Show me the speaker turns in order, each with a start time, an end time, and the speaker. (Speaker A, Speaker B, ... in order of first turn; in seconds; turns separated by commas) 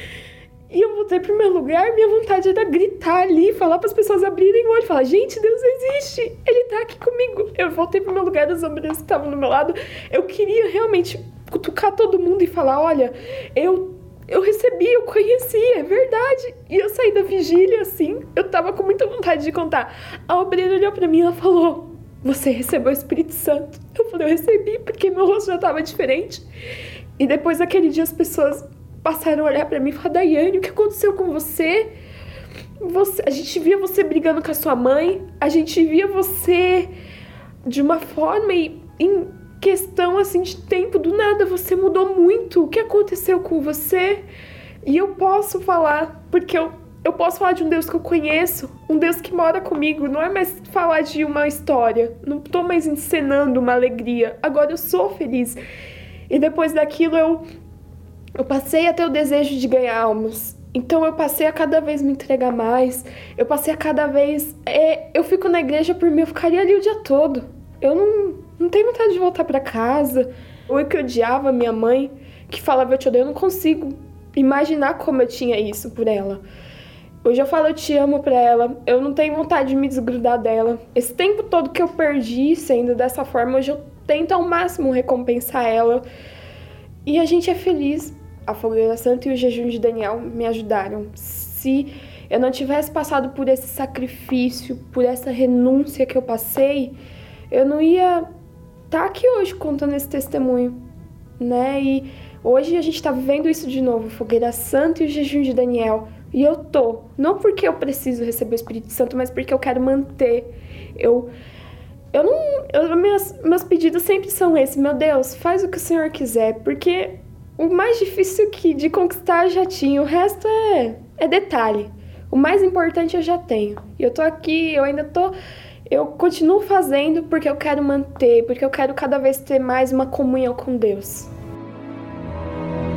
Speaker A: 0.7-26.5, Speaker A: 27.2-31.9, Speaker A: 32.8-36.9, Speaker A: 37.6-44.2, Speaker A: 44.8-55.6, Speaker A: 56.3-57.4, Speaker A: 58.4-76.4, Speaker A: 77.2-86.0, Speaker A: 87.0-97.0, Speaker A: 97.5-98.3, Speaker A: 98.9-100.8, Speaker A: 101.4-111.3, Speaker A: 112.1-125.3, Speaker A: 125.9-131.3